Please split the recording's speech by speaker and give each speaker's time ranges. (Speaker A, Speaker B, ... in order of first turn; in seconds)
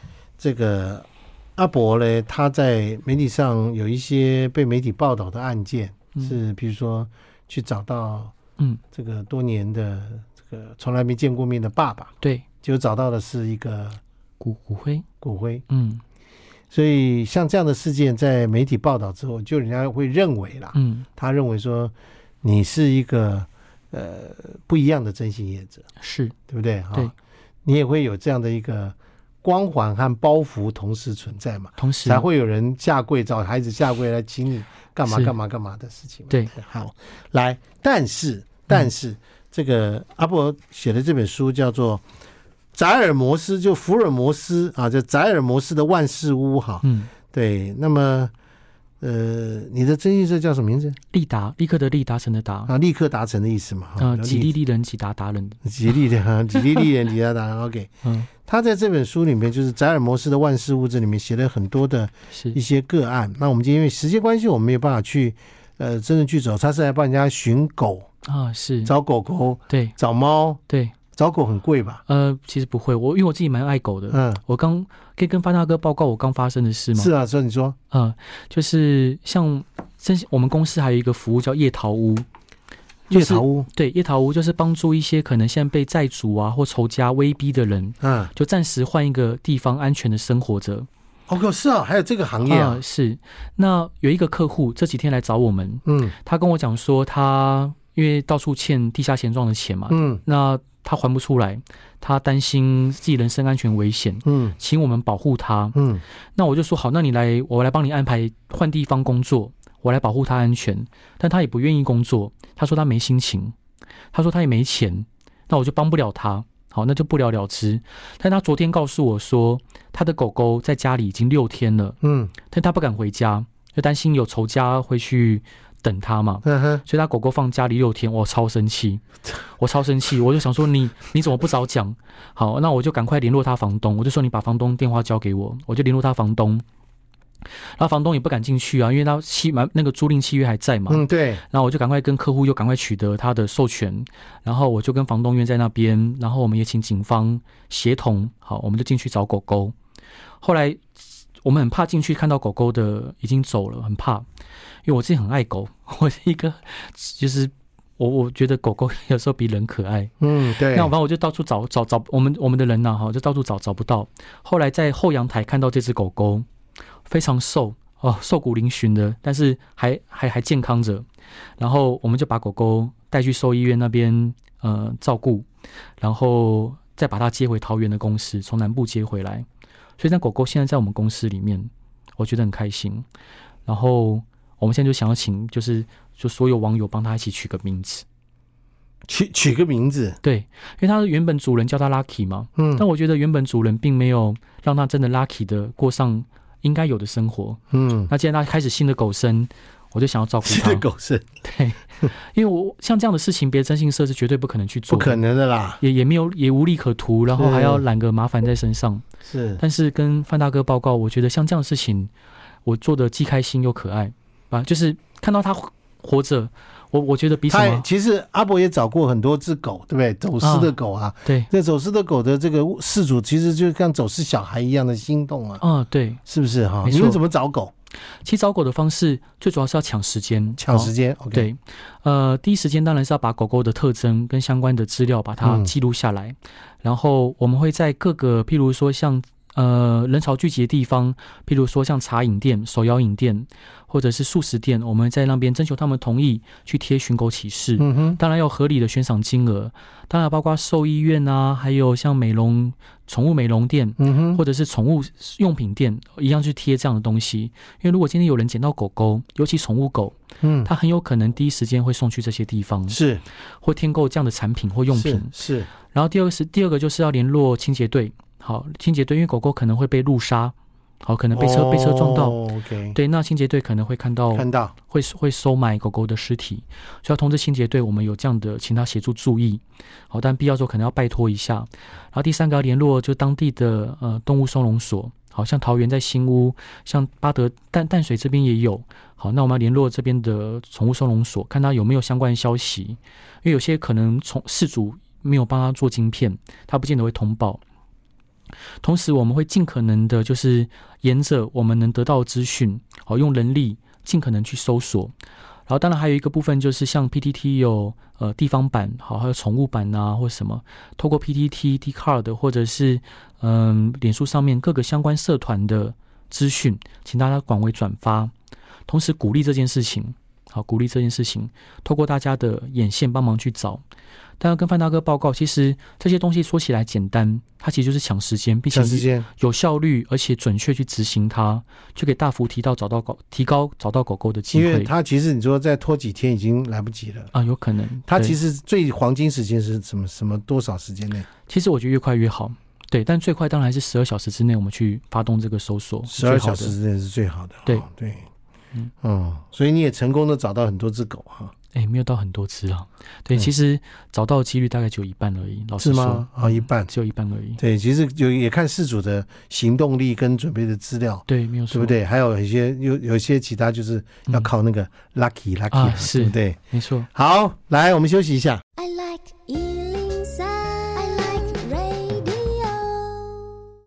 Speaker A: 0.4-8.3, 8.9-14.0, 15.2-15.6, 16.7-25.9, 26.5-27.1, 27.6-42.0, 42.7-48.3, 49.0-51.0, 52.7-54.5, 55.6-57.9, 58.4-68.1, 68.8-70.6, 71.1-72.0, 74.1-74.4, 76.9-77.8, 83.1-83.7, 88.0-88.3, 91.3-92.8, 95.8-96.1, 99.9-100.2, 104.2-104.5, 105.7-106.0, 122.0-122.3, 126.4-126.8, 140.9-141.4, 160.2-160.9, 189.1-190.2, 192.6-192.8, 197.7-198.1, 200.4-201.2, 204.9-205.8, 207.3-207.8, 209.2-209.6, 217.5-225.6, 226.2-227.7, 230.6-231.5, 235.4-235.7, 247.8-248.2, 254.0-254.4, 260.4-260.7, 262.9-263.2, 264.9-265.7, 271.3-272.9, 274.3-274.7, 328.7-329.3, 334.5-337.3, 338.1-341.3, 346.1-348.2, 349.0-351.5, 355.8-356.9, 357.6-366.6, 367.1-368.6
Speaker B: 14.4-15.1, 15.7-16.0, 20.7-21.1, 26.0-26.4, 31.8-32.2, 35.1-35.3, 46.8-47.1, 51.1-52.7, 54.0-55.6, 58.0-58.3, 68.2-68.9, 69.7-69.9, 70.7-70.9, 72.1-77.1, 77.9-82.2, 83.1-90.9, 92.4-105.8, 106.3-113.5, 114.1-129.0, 129.6-136.6, 137.7-149.7, 150.4-150.8, 151.4-154.2, 154.8-166.4, 167.1-171.1, 171.6-175.5, 176.0-179.4, 180.0-183.1, 183.7-188.0, 190.2-200.8, 201.4-205.2, 205.8-209.1, 209.6-212.1, 212.6-217.9, 220.4-220.7, 221.2-221.5, 225.6-226.2, 226.8-227.2, 228.2-263.0, 263.6-265.3, 265.9-272.4, 272.9-297.6, 298.8-305.1, 305.7-318.3, 318.9-323.8, 324.4-334.9, 337.3-338.4, 341.5-346.7, 351.7-357.6, 361.3-361.9, 365.7-367.1
Speaker C: 368.8-373.5